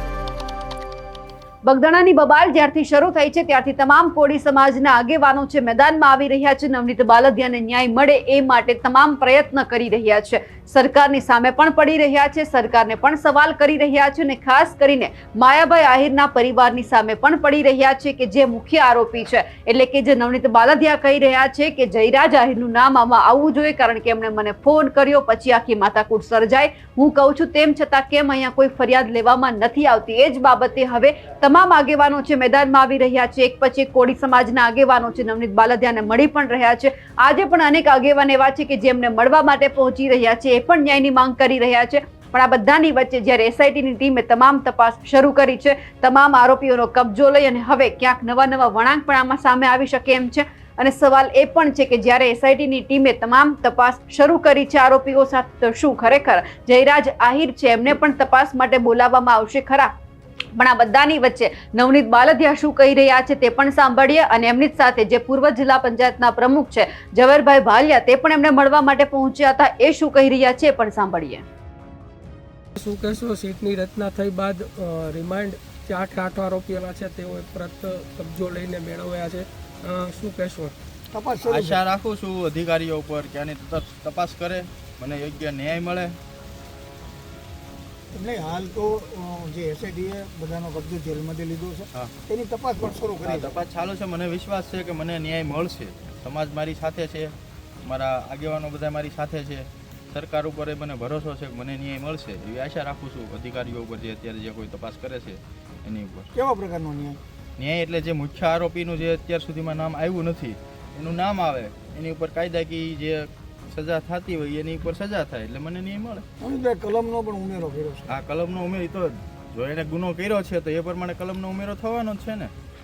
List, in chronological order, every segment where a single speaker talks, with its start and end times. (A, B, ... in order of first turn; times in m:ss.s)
0:01.6-0:59.9 A
1:00.6-1:11.4 A
1:12.8-1:20.8 B
1:21.1-1:21.8 C
1:21.4-1:26.2 D
1:28.1-1:33.6 C
1:33.2-1:37.3 D
1:37.8-1:46.3 D
1:46.3-1:47.2 C
1:47.6-1:56.2 D
1:56.4-1:58.1 C
1:58.1-2:02.5 D